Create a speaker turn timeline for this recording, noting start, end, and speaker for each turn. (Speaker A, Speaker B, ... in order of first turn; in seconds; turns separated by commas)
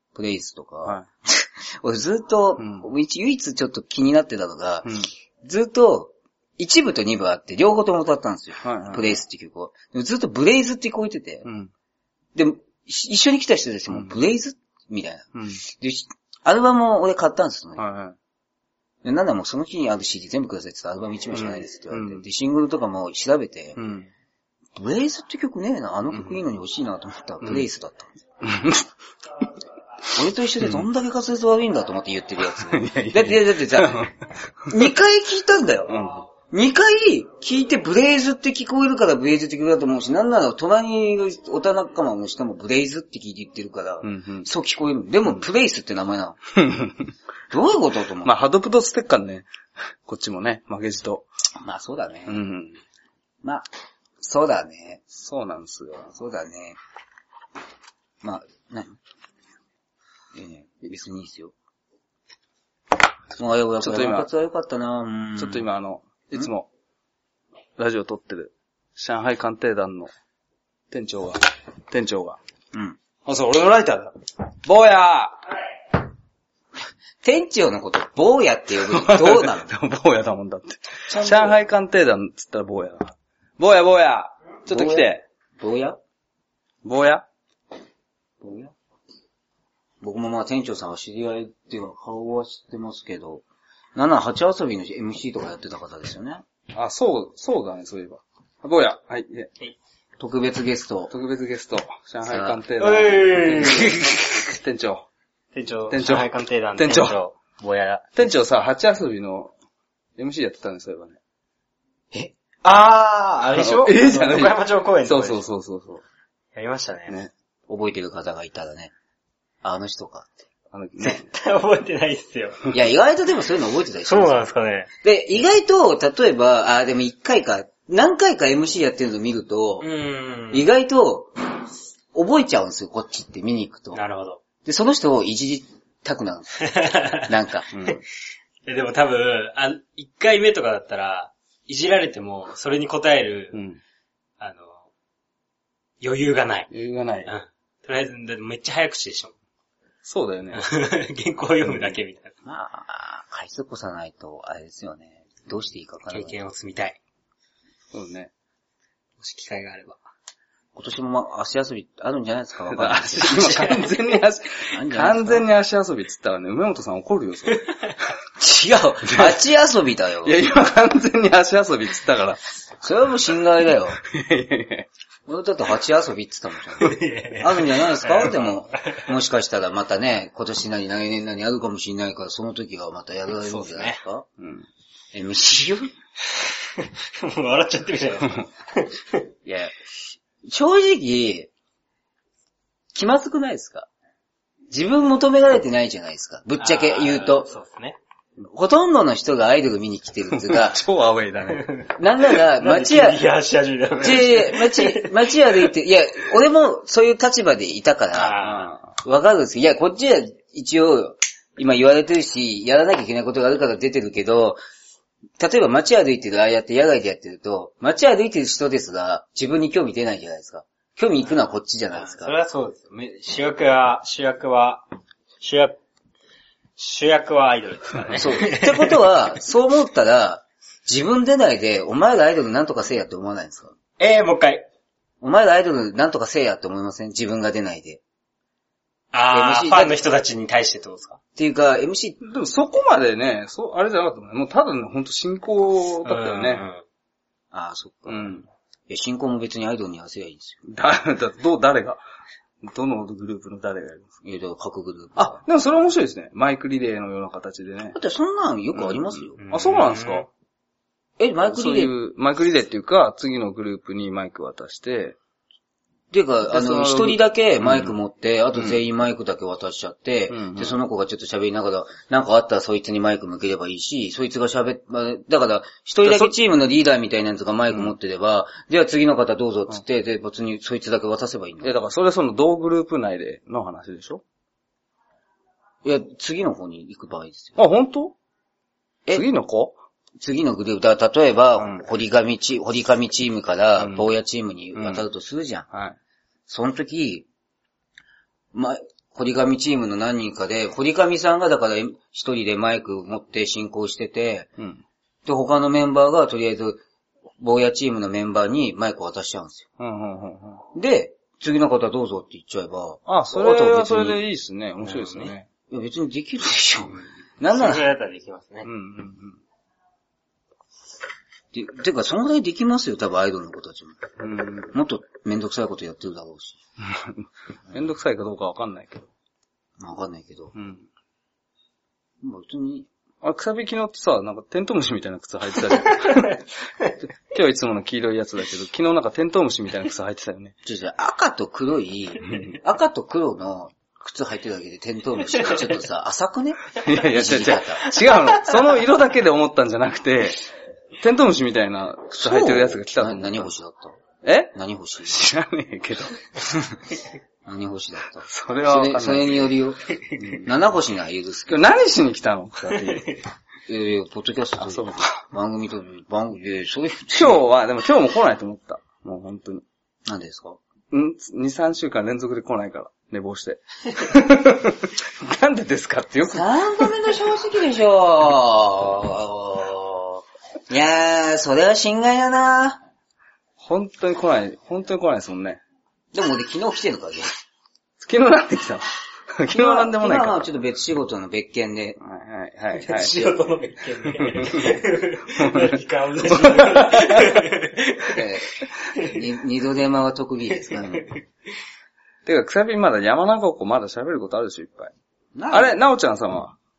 Speaker A: 0.1-11.5, Speaker B: 2.6-2.9, Speaker B: 4.8-5.1, Speaker B: 8.6-9.2, Speaker B: 11.4-11.7, Speaker A: 12.3-17.8, Speaker B: 15.3-15.6, Speaker B: 17.8-18.2, Speaker A: 19.0-23.8, Speaker B: 21.3-22.2, Speaker B: 23.8-24.1, Speaker A: 24.8-28.1, Speaker B: 26.1-26.4, Speaker B: 28.4-28.9, Speaker A: 30.1-34.1, Speaker B: 30.6-30.9, Speaker B: 32.5-34.3, Speaker A: 34.7-46.4, Speaker B: 35.9-36.2, Speaker B: 44.0-44.5, Speaker B: 46.6-47.1, Speaker A: 47.5-48.3, Speaker B: 48.2-49.5, Speaker B: 50.0-51.3, Speaker A: 51.6-52.4, Speaker B: 52.3-52.8, Speaker A: 54.2-55.0, Speaker B: 55.1-56.1, Speaker A: 56.1-56.8, Speaker A: 58.2-59.0, Speaker A: 60.3-61.5, Speaker A: 63.4-65.7, Speaker B: 63.8-64.3, Speaker B: 65.4-66.7, Speaker B: 67.8-70.1, Speaker B: 70.9-72.4, Speaker A: 72.7-73.0, Speaker B: 73.2-74.1, Speaker B: 74.6-75.4, Speaker A: 77.2-79.8, Speaker B: 78.8-85.2, Speaker A: 81.1-81.6, Speaker A: 84.7-85.1, Speaker A: 85.6-86.0, Speaker B: 86.8-87.2, Speaker A: 88.4-88.7, Speaker A: 90.0-96.4, Speaker B: 96.7-99.5, Speaker A: 100.2-101.1, Speaker B: 101.1-105.1, Speaker A: 102.3-102.6, Speaker C: 102.8-104.2, Speaker C: 105.5-108.2, Speaker B: 105.9-107.2, Speaker B: 108.2-109.5, Speaker B: 110.2-111.2, Speaker C: 112.6-115.5, Speaker B: 113.5-116.0, Speaker C: 116.5-117.2, Speaker A: 117.7-118.9, Speaker A: 119.6-120.3, Speaker B: 120.7-121.3, Speaker C: 121.0-122.7, Speaker A: 122.7-124.4, Speaker C: 124.0-124.9, Speaker A: 125.0-129.9, Speaker C: 129.8-130.7, Speaker A: 130.5-134.0, Speaker C: 133.9-134.4, Speaker A: 134.6-137.7, Speaker C: 136.6-137.3, Speaker B: 137.7-138.0, Speaker C: 138.7-143.6, Speaker B: 143.5-143.8, Speaker C: 144.4-144.9, Speaker C: 146.0-146.7, Speaker B: 146.7-147.3, Speaker C: 147.3-149.3, Speaker B: 150.0-150.7, Speaker C: 150.6-152.3, Speaker A: 152.4-156.4, Speaker C: 156.1-157.0, Speaker B: 157.9-158.3, Speaker C: 159.2-160.0, Speaker A: 160.8-163.8, Speaker B: 162.7-167.8, Speaker C: 163.3-163.9, Speaker A: 164.7-165.5, Speaker A: 168.4-170.3, Speaker B: 170.2-172.4, Speaker A: 172.8-174.0, Speaker B: 174.0-174.9, Speaker A: 175.3-184.3, Speaker C: 176.8-179.1, Speaker C: 183.4-184.0, Speaker B: 184.4-184.7, Speaker A: 185.1-185.9, Speaker C: 186.3-189.3, Speaker A: 189.4-189.7, Speaker A: 190.5-191.5, Speaker A: 192.9-193.9, Speaker A: 194.7-197.5, Speaker C: 196.6-198.0, Speaker A: 198.4-200.8, Speaker B: 200.3-201.7, Speaker C: 201.5-205.7, Speaker A: 201.9-203.2, Speaker A: 204.0-208.4, Speaker C: 208.1-208.7, Speaker B: 208.4-208.9, Speaker A: 209.0-214.6, Speaker A: 215.4-222.4, Speaker C: 221.9-224.9, Speaker C: 225.4-225.8, Speaker C: 226.8-229.2, Speaker A: 228.1-233.7, Speaker C: 234.0-234.7, Speaker A: 235.2-238.0, Speaker C: 239.1-241.2, Speaker A: 239.3-240.0, Speaker A: 241.4-242.2, Speaker B: 242.2-246.7, Speaker C: 246.1-246.8, Speaker A: 247.5-248.4, Speaker B: 248.1-248.5, Speaker A: 248.9-250.6, Speaker B: 250.7-252.0, Speaker B: 252.6-254.1, Speaker A: 254.2-255.4, Speaker B: 255.2-258.0, Speaker A: 257.9-259.4, Speaker B: 258.8-260.3, Speaker C: 259.4-260.3, Speaker A: 261.2-261.9, Speaker B: 261.5-265.2, Speaker A: 266.1-281.7, Speaker B: 266.5-267.9, Speaker B: 270.3-270.8, Speaker B: 276.0-276.3, Speaker B: 281.6-284.2, Speaker A: 285.8-287.6, Speaker B: 287.6-288.2, Speaker B: 289.1-289.8, Speaker A: 290.2-295.7, Speaker B: 291.6-291.8, Speaker B: 293.8-294.1, Speaker B: 294.8-295.1, Speaker B: 295.7-296.0, Speaker A: 296.5-297.3, Speaker A: 298.5-304.5, Speaker B: 304.6-304.8, Speaker A: 305.2-306.8, Speaker A: 307.4-309.7, Speaker B: 309.8-310.6, Speaker A: 310.7-314.2, Speaker B: 313.1-315.5, Speaker C: 315.0-315.3, Speaker A: 315.7-317.9, Speaker C: 317.5-318.7, Speaker B: 318.6-319.4, Speaker A: 321.5-324.0, Speaker B: 324.2-324.7, Speaker A: 324.7-326.6, Speaker B: 326.8-329.1, Speaker A: 329.8-330.5, Speaker B: 330.5-330.9, Speaker A: 332.2-332.9, Speaker B: 333.2-336.4, Speaker B: 337.0-340.6, Speaker A: 340.6-348.0, Speaker B: 342.3-342.6, Speaker B: 346.8-350.5, Speaker C: 348.2-348.6, Speaker B: 351.0-353.5, Speaker A: 352.1-353.9, Speaker B: 354.2-356.2, Speaker A: 354.5-355.1, Speaker A: 357.4-361.6, Speaker B: 358.3-359.5, Speaker B: 360.2-360.4, Speaker B: 361.5-363.1, Speaker C: 362.7-363.2, Speaker A: 363.7-367.4, Speaker B: 364.6-365.2, Speaker B: 367.1-369.6, Speaker A: 370.1-370.6, Speaker B: 370.9-376.9, Speaker A: 376.3-382.8, Speaker B: 383.6-385.6, Speaker A: 386.1-387.3, Speaker B: 388.0-390.4, Speaker A: 389.5-392.0, Speaker B: 392.0-393.2, Speaker C: 392.8-398.3, Speaker B: 394.3-394.7, Speaker B: 395.3-397.4, Speaker A: 398.0-401.1, Speaker C: 398.9-399.2, Speaker C: 400.7-401.2, Speaker B: 402.2-404.9, Speaker A: 405.4-405.8, Speaker B: 405.5-406.6